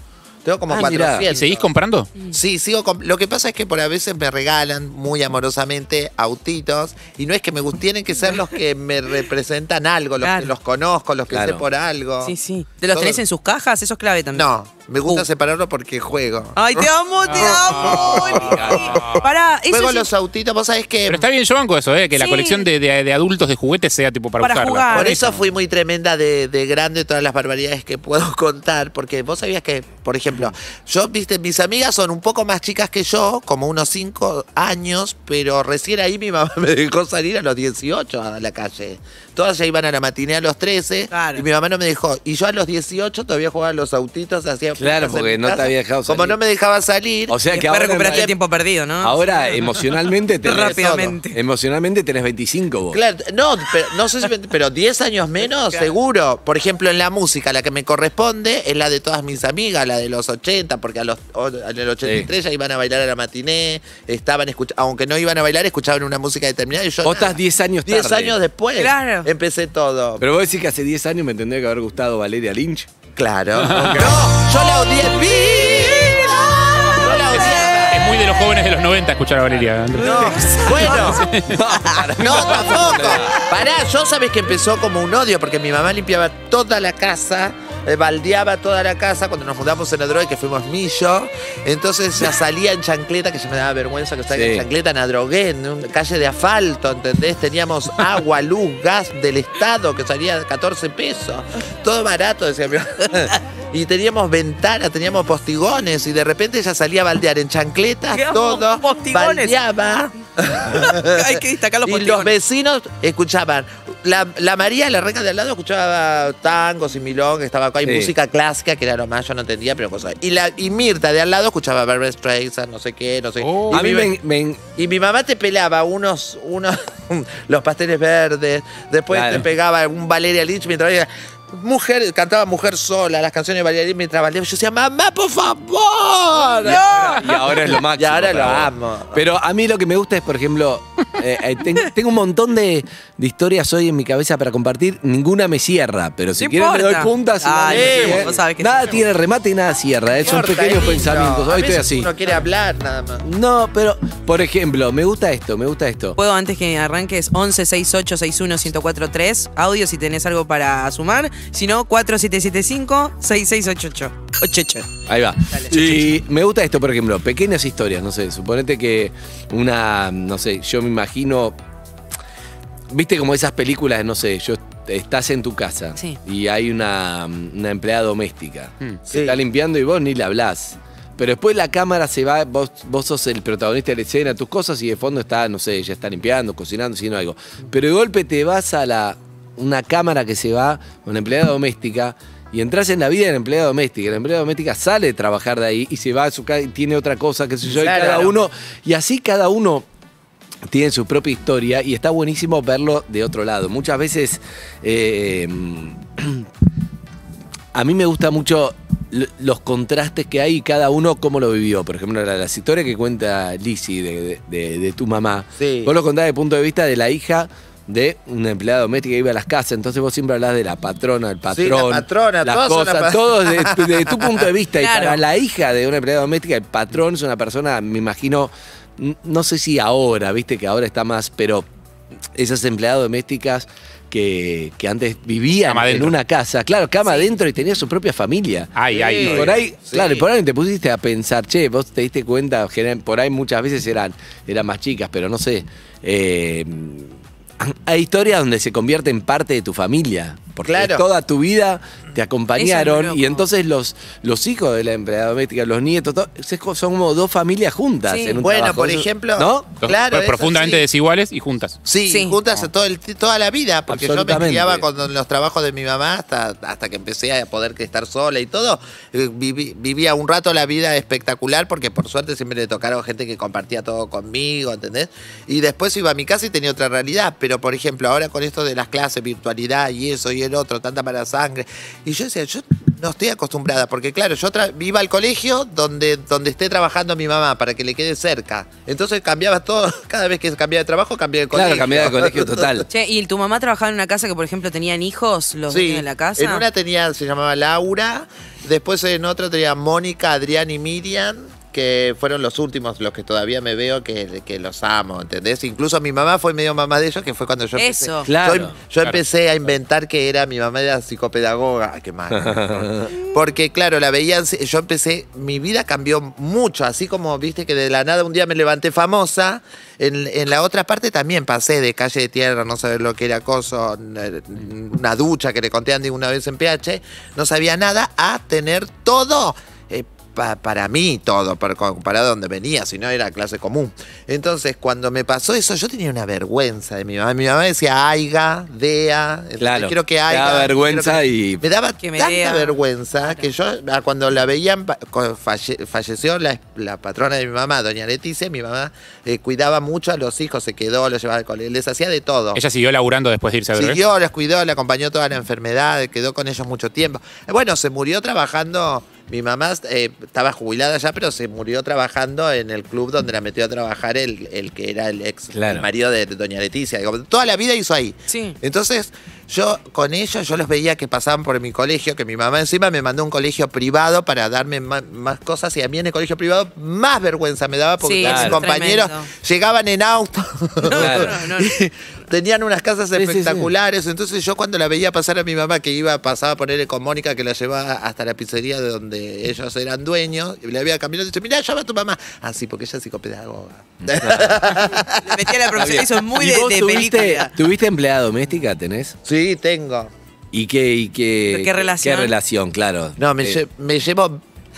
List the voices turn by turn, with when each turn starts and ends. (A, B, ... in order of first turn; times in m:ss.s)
0:00.4-0:01.7 A
0:00.7-0:01.1 B
0:00.7-0:01.3 C
0:01.3-0:02.1 D
0:02.3-0:12.4 A
0:10.2-0:10.5 B
0:11.3-0:11.7 C
0:12.2-0:14.5 B
0:12.9-0:13.2 A
0:14.3-0:21.2 A
0:16.6-0:20.1 B
0:17.3-0:18.6 D
0:18.4-0:19.0 C
0:21.1-0:25.5 D
0:22.2-0:22.7 B
0:24.4-0:25.2 B
0:24.9-0:47.4 A
0:41.1-0:41.5 B
0:44.8-0:46.4 C
0:47.3-0:48.3 C
0:47.5-0:49.6 B
0:48.0-0:48.4 A
0:49.0-0:53.0 C
0:50.4-0:51.4 B
0:50.6-0:51.0 A
0:52.9-1:10.2 A
1:02.0-1:02.3 C
1:07.0-1:08.4 C
1:08.8-1:09.3 B
1:10.2-1:12.9 C
1:13.2-1:18.0 A
1:13.6-1:14.2 D
1:15.6-1:18.1 B
1:17.9-1:21.6 D
1:20.0-1:21.3 A
1:20.2-1:21.2 B
1:21.4-1:23.4 C
1:22.1-2:04.1 A
1:34.3-1:34.7 C
1:48.1-1:49.6 B
1:50.7-1:52.3 B
1:57.8-1:58.1 C
2:03.4-2:03.8 D
2:03.7-2:04.6 C
2:04.8-2:19.2 A
2:09.1-2:09.5 C
2:16.4-2:32.1 C
2:16.6-2:17.3 B
2:26.4-2:29.0 B
2:27.7-2:28.3 A
2:30.2-2:33.2 A
2:33.2-2:36.2 C
2:36.2-2:44.9 B
2:45.1-2:51.6 C
2:45.5-2:46.0 B
2:52.9-3:19.9 C
2:59.1-2:59.4 A
3:17.7-3:18.3 A
3:20.7-3:26.5 C
3:27.7-3:51.7 C
3:35.6-3:35.9 A
3:41.5-3:44.3 A
3:44.8-3:45.2 B
3:52.4-3:58.7 C
3:55.7-3:56.2 D
3:57.1-3:57.3 B
3:58.8-3:59.6 D
3:58.9-4:00.2 A
3:59.2-4:19.7 C
4:10.7-4:11.0 A
4:12.6-4:13.4 B
4:18.1-4:18.4 B
4:18.4-4:20.8 A
4:19.8-4:21.8 D
4:21.8-4:52.8 A
4:22.1-4:22.4 B
4:23.9-4:24.9 C
4:51.5-4:52.9 C
4:52.9-4:56.6 B
4:55.7-5:52.6 A
5:07.8-5:08.3 B
5:08.3-5:08.8 C
5:12.3-5:13.1 C
5:39.6-5:41.6 C
5:42.0-5:43.5 B
5:52.6-5:54.0 D
5:53.8-6:35.3 A
6:05.5-6:05.9 C
6:08.3-6:08.6 B
6:18.0-6:19.3 B
6:18.2-6:18.6 C
6:20.8-6:21.7 B
6:20.9-6:21.4 C
6:23.1-6:23.7 C
6:34.1-6:35.0 C
6:35.2-6:37.6 B
6:35.7-6:39.2 C
6:39.3-6:40.1 A
6:40.5-6:43.6 C
6:41.5-6:42.4 B
6:43.2-6:44.4 A